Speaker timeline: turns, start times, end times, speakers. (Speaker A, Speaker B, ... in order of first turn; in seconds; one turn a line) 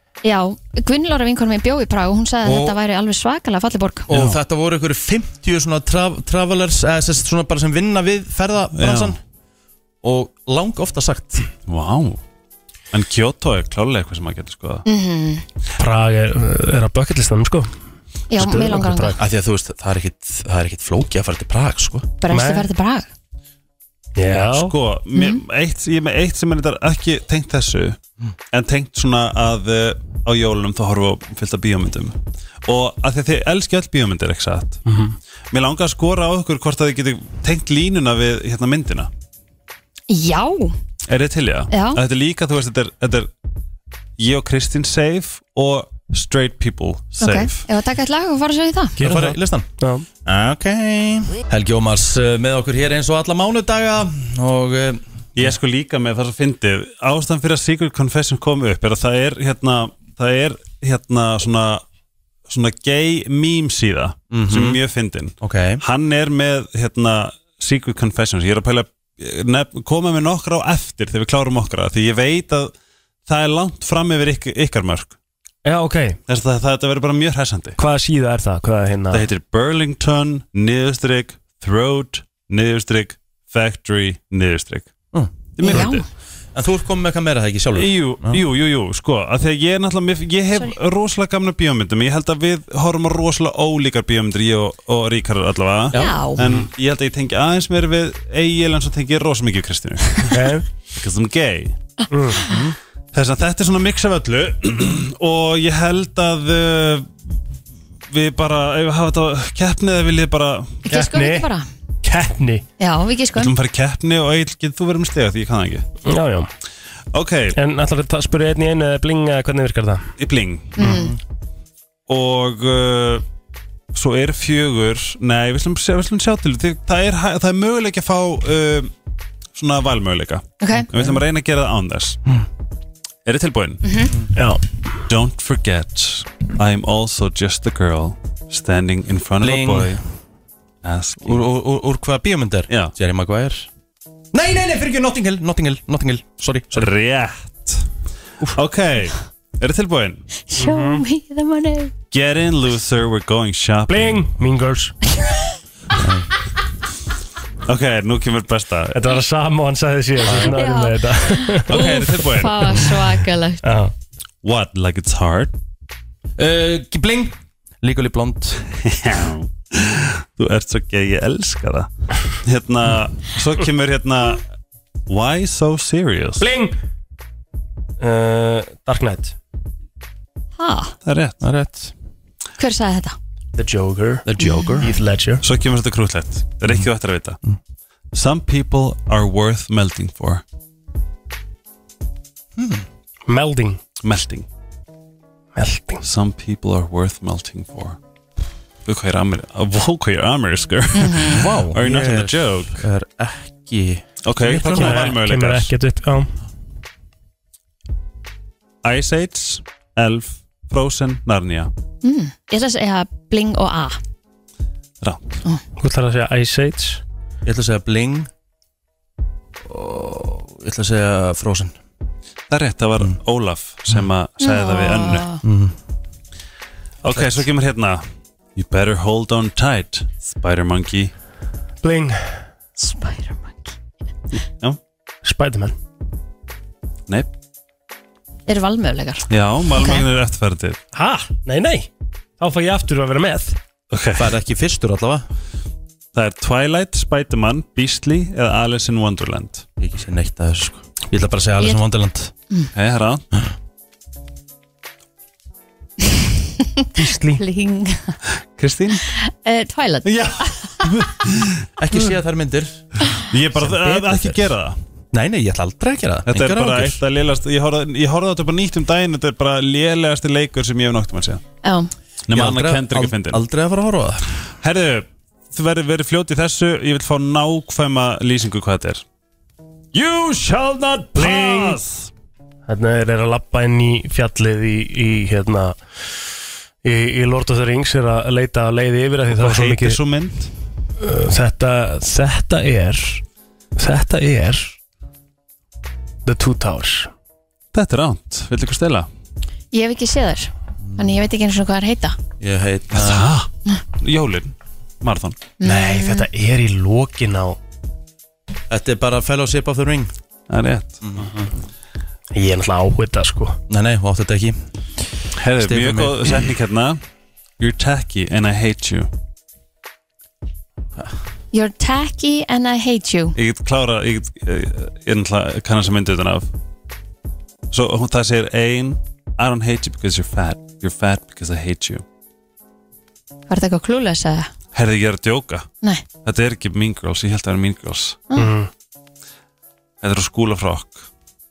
Speaker A: 0.2-4.1
Speaker B: 2.4-2.8
Speaker B: 4.1-9.2
Speaker C: 4.1-4.4
Speaker C: 8.8-9.2
Speaker B: 10.0-11.5
Speaker C: 11.7-12.2
Speaker C: 12.9-14.8
Speaker A: 14.9-15.4
Speaker D: 15.8-17.7
Speaker A: 18.3-19.2
Speaker D: 18.4-19.2
Speaker B: 19.2-22.1
Speaker A: 22.2-23.1
Speaker D: 22.3-22.7
Speaker D: 24.2-24.7
Speaker C: 24.4-28.0
Speaker A: 25.1-25.4
Speaker C: 28.5-34.8
Speaker D: 34.9-35.2
Speaker C: 35.5-39.1
Speaker A: 40.1-40.8
Speaker C: 41.1-43.3
Speaker A: 41.7-42.0
Speaker C: 44.2-47.6
Speaker A: 47.2-49.0
Speaker D: 49.0-50.1
Speaker B: 49.0-49.7
Speaker B: 50.2-55.5
Speaker C: 55.4-61.8
Speaker C: 62.5-72.7
Speaker B: 64.3-64.8
Speaker B: 65.4-65.8
Speaker C: 73.3-75.2
Speaker D: 75.7-76.2
Speaker C: 76.3-77.8
Speaker D: 77.8-79.3
Speaker C: 79.1-84.9
Speaker C: 85.6-86.1
Speaker A: 85.6-86.0
Speaker B: 86.5-88.4
Speaker C: 87.8-101.8
Speaker B: 95.9-96.3
Speaker A: 95.9-96.4
Speaker D: 100.3-100.7
Speaker D: 102.1-102.4
Speaker B: 102.5-102.8
Speaker C: 103.1-107.1
Speaker C: 108.1-110.9
Speaker A: 110.9-111.7
Speaker D: 110.9-111.5
Speaker D: 112.0-112.6
Speaker A: 112.8-113.5
Speaker C: 113.3-115.8
Speaker D: 116.1-116.5
Speaker C: 117.1-117.6
Speaker D: 117.5-120.1
Speaker C: 120.2-120.9
Speaker A: 120.8-121.1
Speaker B: 120.8-121.2
Speaker C: 122.1-123.2
Speaker C: 123.9-128.9
Speaker C: 129.6-132.2
Speaker A: 130.6-130.9
Speaker C: 133.2-133.8
Speaker A: 133.8-134.1
Speaker D: 134.3-134.6
Speaker C: 135.1-140.0
Speaker B: 139.4-140.0
Speaker C: 140.8-141.4
Speaker B: 141.2-143.7
Speaker B: 144.3-146.9
Speaker C: 146.7-147.9
Speaker C: 148.6-150.2
Speaker A: 150.5-151.9
Speaker D: 150.6-151.0
Speaker C: 152.1-154.3
Speaker D: 153.9-154.9
Speaker A: 155.2-155.5
Speaker B: 156.0-156.3
Speaker C: 157.7-159.0
Speaker D: 158.9-161.8
Speaker B: 160.2-160.6
Speaker A: 160.3-163.6
Speaker C: 161.7-162.8
Speaker D: 163.6-163.9
Speaker C: 164.4-165.6
Speaker B: 166.4-168.6
Speaker C: 168.8-171.9
Speaker C: 172.4-174.4
Speaker C: 175.1-176.5
Speaker D: 176.4-176.8
Speaker D: 178.0-179.3
Speaker A: 180.6-180.9
Speaker C: 181.1-181.4
Speaker B: 181.4-181.9
Speaker A: 182.6-183.2
Speaker D: 183.6-184.3
Speaker B: 184.2-184.9
Speaker A: 184.4-184.8
Speaker D: 184.8-185.4
Speaker C: 185.4-187.4
Speaker C: 188.1-190.4
Speaker B: 192.6-192.9
Speaker D: 193.3-193.8
Speaker C: 194.0-194.5
Speaker D: 195.6-196.0
Speaker C: 196.0-198.0
Speaker C: 198.9-202.8
Speaker A: 200.9-201.4
Speaker B: 201.3-205.2
Speaker C: 204.2-205.7
Speaker D: 204.6-206.3
Speaker C: 208.8-211.7
Speaker A: 212.0-214.0
Speaker C: 215.0-215.4
Speaker D: 215.8-217.0
Speaker B: 217.4-218.3
Speaker B: 219.6-221.8
Speaker C: 222.5-225.3
Speaker A: 224.4-225.4
Speaker B: 225.4-225.8
Speaker C: 227.0-228.1
Speaker B: 227.1-227.5
Speaker C: 228.6-231.1
Speaker D: 231.8-232.4
Speaker A: 232.8-233.8
Speaker D: 235.2-235.8
Speaker A: 238.5-240.0
Speaker C: 239.3-240.8
Speaker D: 240.9-241.9
Speaker D: 242.4-243.6
Speaker C: 243.9-244.3
Speaker B: 244.2-245.3
Speaker C: 246.1-249.7
Speaker B: 249.8-252.3
Speaker C: 252.8-253.2
Speaker A: 256.6-258.2
Speaker D: 256.9-257.4
Speaker C: 258.6-259.0
Speaker A: 259.1-260.7
Speaker C: 260.0-261.7
Speaker B: 261.8-262.9
Speaker C: 263.3-264.8
Speaker B: 263.6-264.4
Speaker B: 265.1-267.0
Speaker C: 266.3-271.4
Speaker A: 271.6-271.9
Speaker C: 272.3-273.4
Speaker B: 272.3-274.3
Speaker C: 274.6-279.0
Speaker C: 279.9-282.1
Speaker D: 281.1-281.8
Speaker D: 282.7-285.8
Speaker D: 286.8-290.0
Speaker C: 289.3-290.5
Speaker D: 291.0-293.2
Speaker D: 293.8-294.8
Speaker D: 296.3-297.1
Speaker C: 297.7-299.1
Speaker A: 299.7-302.2
Speaker B: 300.8-301.2
Speaker B: 302.4-303.3
Speaker C: 302.9-305.4
Speaker A: 305.6-306.3
Speaker D: 305.6-307.6
Speaker B: 308.7-310.1
Speaker C: 310.5-311.5
Speaker B: 311.0-311.3
Speaker D: 312.3-313.6
Speaker B: 313.7-314.6
Speaker C: 315.4-317.0
Speaker B: 315.6-316.5
Speaker C: 317.6-319.1
Speaker A: 321.5-323.4
Speaker C: 323.4-326.5
Speaker C: 327.7-332.0
Speaker A: 333.5-334.5
Speaker C: 334.7-335.7
Speaker C: 336.2-338.2
Speaker D: 338.4-338.7
Speaker C: 340.0-341.1